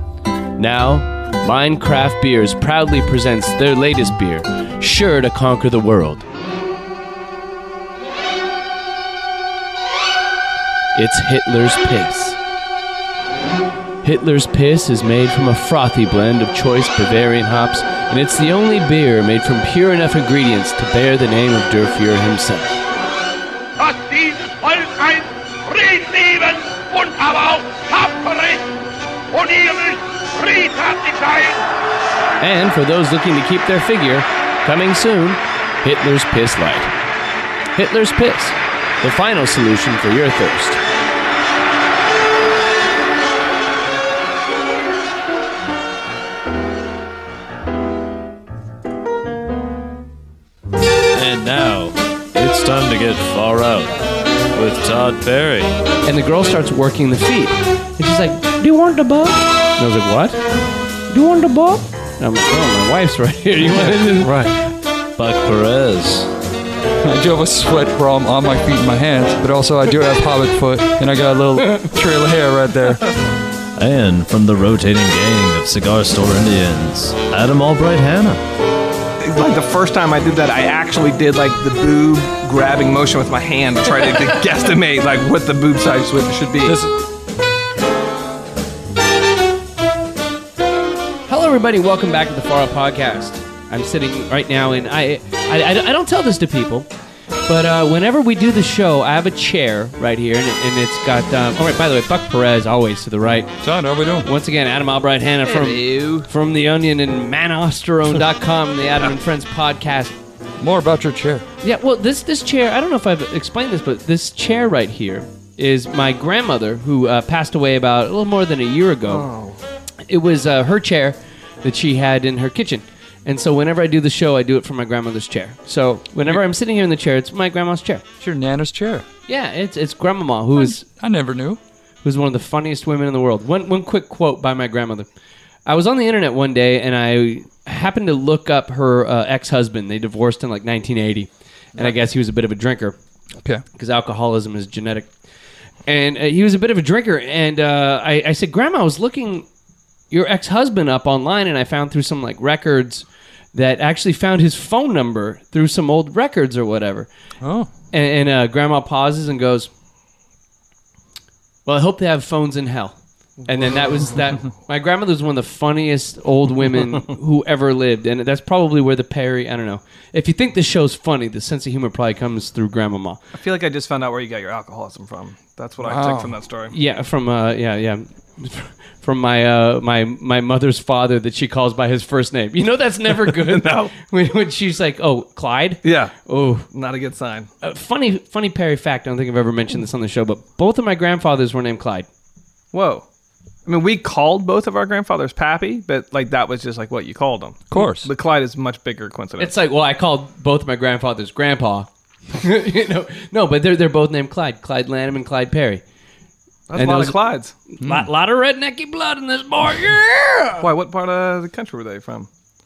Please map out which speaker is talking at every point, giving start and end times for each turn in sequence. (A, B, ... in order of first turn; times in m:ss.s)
0:00.6-0:06.2 A
0:11.0-0:12.4 A
0:14.0-0:22.8 A
0:23.8-0:28.6 B
0:29.3-0:31.6 B
0:32.4-0:36.9 A
0:37.7-0:40.8 A
0:51.1-0:53.9 C
0:54.5-0:55.7 C
0:56.1-1:00.4 A
1:01.1-1:04.5 A
1:04.2-1:04.5 C
1:05.2-1:06.3 C
1:07.0-1:13.1 D
1:13.8-1:18.4 C
1:19.2-1:26.8 E
1:26.6-1:27.0 D
1:31.3-1:36.9 A
1:37.5-1:43.6 A
1:43.6-1:44.3 D
1:44.2-1:50.1 A
1:45.4-1:46.3 E
1:50.6-1:51.5 D
1:51.6-1:59.3 A
1:59.1-1:59.6 E
2:00.1-2:08.0 A
2:08.2-2:09.1 D
2:09.3-2:10.9 A
2:10.8-2:11.6 D
2:12.0-2:15.1 A
2:15.7-2:23.0 A
2:23.4-2:23.6 D
2:23.7-2:25.1 A
2:25.9-2:29.5 A
2:30.1-2:37.1 A
2:37.4-2:37.7 D
2:37.9-2:39.7 A
2:41.7-2:43.0 A
2:43.4-2:44.1 E
2:43.5-2:53.2 A
2:53.4-2:56.7 E
2:55.8-2:56.3 D
2:56.7-3:06.7 A
3:03.3-3:03.9 E
3:05.8-3:06.2 E
3:06.7-3:07.5 E
3:07.6-3:12.1 A
3:12.7-3:13.0 E
3:13.7-3:19.6 E
3:17.7-3:18.1 D
3:19.4-3:25.8 A
3:26.7-3:27.5 E
3:26.8-3:30.7 A
3:27.8-3:28.1 D
3:30.6-3:32.3 E